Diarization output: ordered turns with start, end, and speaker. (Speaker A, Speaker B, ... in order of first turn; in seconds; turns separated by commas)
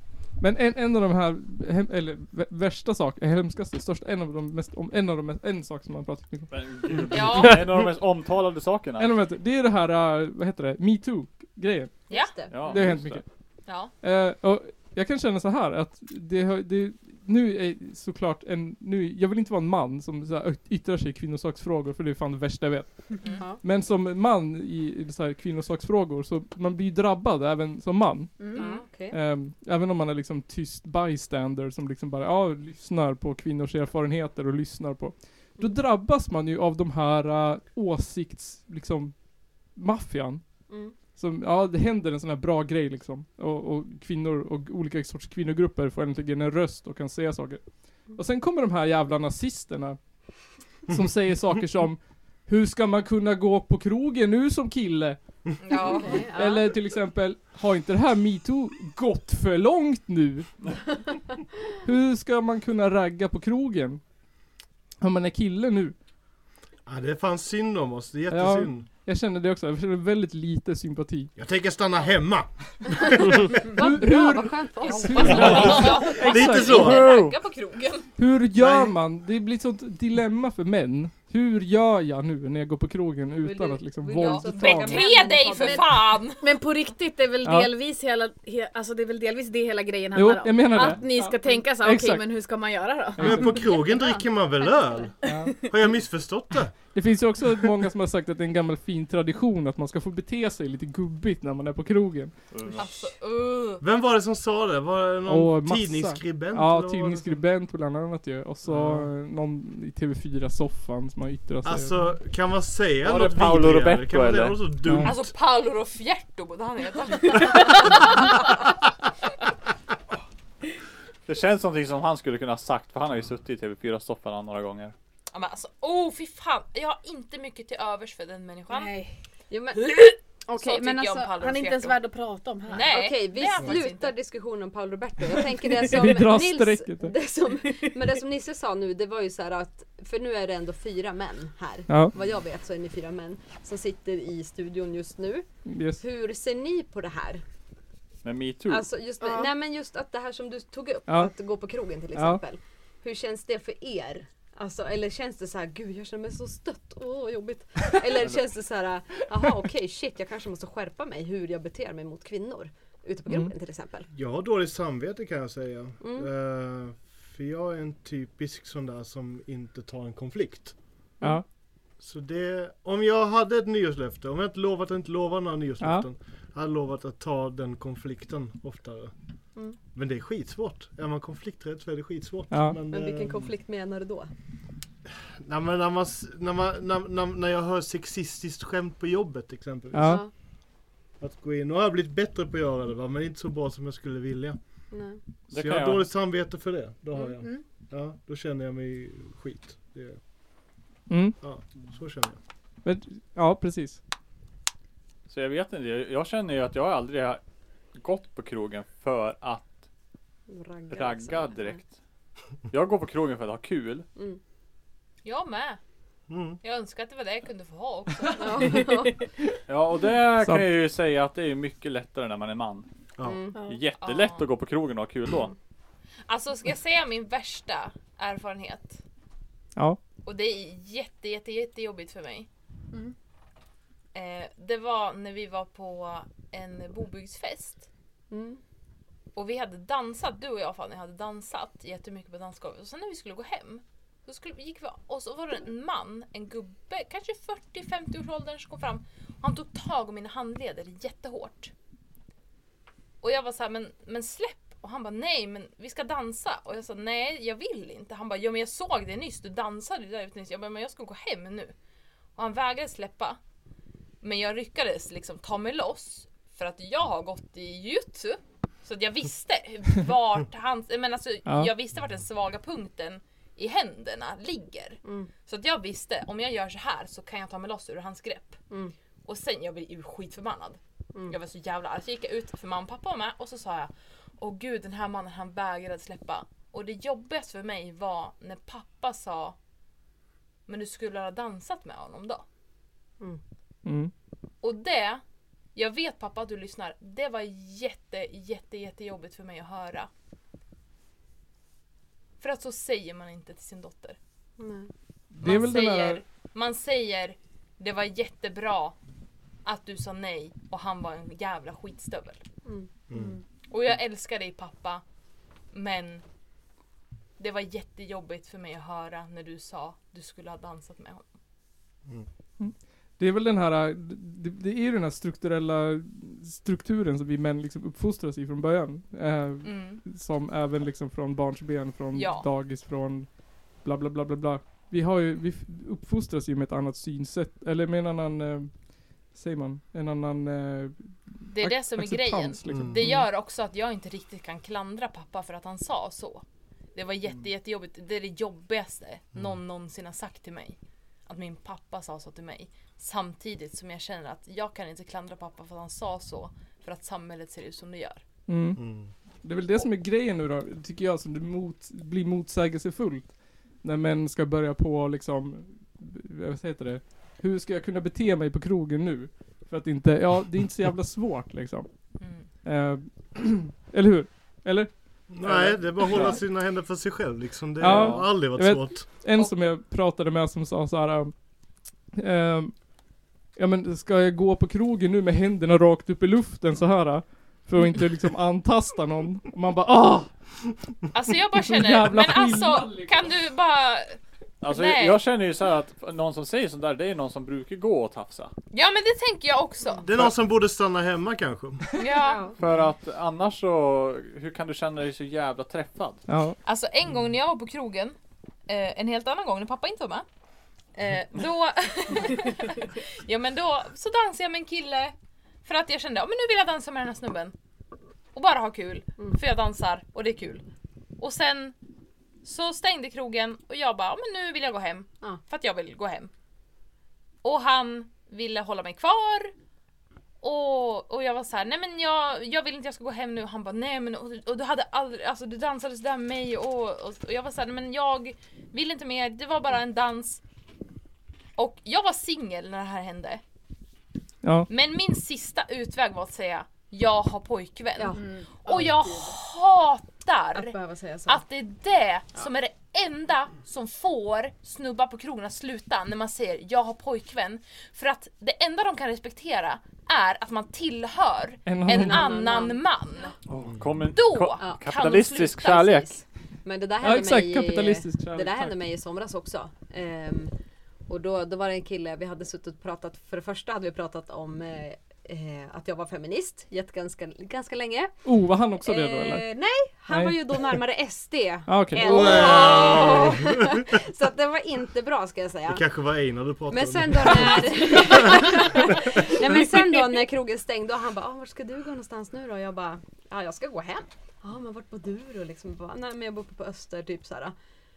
Speaker A: 0.4-6.9, Speaker B: 6.5-9.1, Speaker C: 7.1-7.7, Speaker A: 9.0-12.0, Speaker D: 12.1-12.6, Speaker C: 12.1-12.8, Speaker B: 12.5-13.2, Speaker A: 12.7-13.3, Speaker C: 13.7-13.9, Speaker A: 14.0-50.0, Speaker E: 28.4-28.8, Speaker D: 28.5-29.2, Speaker D: 40.7-40.9, Speaker A: 50.9-55.2, Speaker C: 55.6-56.6, Speaker D: 55.7-56.6, Speaker A: 56.1-60.5, Speaker A: 61.8-64.0, Speaker A: 65.0-65.9, Speaker F: 66.8-68.9, Speaker A: 68.3-71.3, Speaker F: 71.3-73.6, Speaker D: 73.6-76.2, Speaker A: 73.7-77.0, Speaker C: 74.9-78.1, Speaker F: 75.3-77.1, Speaker B: 75.5-77.4, Speaker A: 78.2-85.0, Speaker F: 78.5-78.9, Speaker D: 83.4-86.1, Speaker C: 84.2-86.4, Speaker E: 86.4-93.6, Speaker A: 87.4-87.7, Speaker A: 90.1-92.2, Speaker A: 93.2-93.6, Speaker F: 93.2-95.2, Speaker D: 93.5-95.1, Speaker A: 95.2-95.7, Speaker E: 95.2-95.6, Speaker F: 95.7-96.9, Speaker A: 96.9-102.3, Speaker B: 102.5-102.9, Speaker C: 102.8-103.8, Speaker F: 103.8-107.4, Speaker A: 105.3-112.0, Speaker F: 108.7-109.1, Speaker F: 111.6-115.3, Speaker B: 113.0-114.7, Speaker A: 114.8-115.1, Speaker C: 115.0-118.6, Speaker B: 121.2-124.9, Speaker C: 125.3-128.9, Speaker E: 128.7-129.1, Speaker D: 129.5-129.9, Speaker C: 129.8-132.0, Speaker D: 130.5-131.3, Speaker E: 131.2-133.0, Speaker C: 132.7-134.1, Speaker D: 132.9-145.5, Speaker A: 135.9-137.1, Speaker A: 141.9-142.1, Speaker A: 145.6-146.0, Speaker D: 146.0-147.4, Speaker B: 148.2-148.8, Speaker D: 148.7-164.1, Speaker E: 149.2-149.5, Speaker A: 151.1-151.3, Speaker A: 152.1-152.4, Speaker A: 163.3-163.5, Speaker F: 164.1-170.8, Speaker D: 166.0-166.3, Speaker F: 172.0-179.1, Speaker F: 179.9-183.5, Speaker A: 182.5-182.8, Speaker D: 182.9-184.3, Speaker F: 185.4-190.2, Speaker A: 189.9-190.2, Speaker D: 190.0-190.3, Speaker F: 191.2-194.6, Speaker D: 194.9-195.2, Speaker B: 195.5-196.1, Speaker F: 195.5-200.2, Speaker E: 197.2-197.6, Speaker A: 201.1-201.4, Speaker F: 201.4-202.4, Speaker A: 202.8-204.0, Speaker B: 205.3-207.4, Speaker B: 207.9-209.8, Speaker D: 210.5-211.8, Speaker B: 210.9-211.9, Speaker B: 212.7-214.1, Speaker C: 215.2-215.8, Speaker F: 216.3-216.6, Speaker C: 216.6-218.8, Speaker D: 218.4-219.1, Speaker B: 219.7-222.9, Speaker A: 220.4-220.7, Speaker F: 223.2-223.4, Speaker D: 223.2-223.5, Speaker E: 223.5-223.8, Speaker B: 223.7-225.5, Speaker C: 224.0-224.4, Speaker C: 226.3-229.0, Speaker C: 230.2-232.5, Speaker C: 234.1-237.9, Speaker D: 238.3-238.6, Speaker C: 239.3-251.7, Speaker C: 253.2-261.7, Speaker C: 262.4-263.4, Speaker C: 264.2-278.6, Speaker A: 271.4-271.7, Speaker D: 275.0-275.3, Speaker C: 279.2-289.6, Speaker C: 290.7-292.4, Speaker A: 293.8-294.1, Speaker C: 294.6-295.2, Speaker C: 295.7-300.1, Speaker C: 302.4-304.2, Speaker D: 304.6-304.9, Speaker A: 305.4-306.2, Speaker C: 305.4-308.9, Speaker C: 309.6-312.4, Speaker D: 312.6-312.9, Speaker F: 313.1-313.4, Speaker C: 313.7-315.0, Speaker C: 315.7-316.2, Speaker C: 317.4-321.3, Speaker A: 322.6-333.3, Speaker C: 329.6-330.0, Speaker C: 332.1-332.5, Speaker A: 333.8-338.7, Speaker A: 339.3-343.3, Speaker C: 341.5-346.4, Speaker F: 342.7-343.1, Speaker C: 346.9-358.2, Speaker A: 358.5-358.9, Speaker F: 358.8-359.1, Speaker A: 359.4-371.9, Speaker C: 372.2-372.5, Speaker A: 372.6-376.4, Speaker F: 375.3-379.1, Speaker A: 377.8-381.3, Speaker B: 377.8-378.3, Speaker C: 379.3-379.7, Speaker A: 382.1-382.8, Speaker A: 383.6-390.3, Speaker C: 391.1-395.2, Speaker A: 391.6-393.3, Speaker B: 394.6-398.5, Speaker C: 398.7-400.1, Speaker F: 400.0-401.9, Speaker C: 401.9-402.5, Speaker D: 402.1-402.6, Speaker B: 402.6-406.2, Speaker A: 406.3-406.6, Speaker C: 406.6-408.1, Speaker C: 408.7-410.2, Speaker C: 410.9-417.5, Speaker C: 418.3-420.6, Speaker C: 421.2-421.7, Speaker C: 422.4-426.3, Speaker C: 427.4-429.5, Speaker C: 430.4-440.4, Speaker C: 441.6-443.4, Speaker A: 444.4-444.7, Speaker C: 444.7-450.7, Speaker E: 448.1-449.4, Speaker D: 450.5-451.4, Speaker C: 451.3-463.3, Speaker A: 461.6-462.3, Speaker D: 461.9-462.8, Speaker B: 463.5-466.1, Speaker F: 463.7-463.9, Speaker C: 464.1-466.1, Speaker D: 466.6-470.5, Speaker A: 467.0-468.8, Speaker D: 471.1-478.2, Speaker A: 478.2-479.4, Speaker D: 478.8-485.8, Speaker A: 480.1-480.4, Speaker A: 481.7-482.4, Speaker F: 482.0-483.9, Speaker F: 485.7-489.0, Speaker D: 486.7-497.5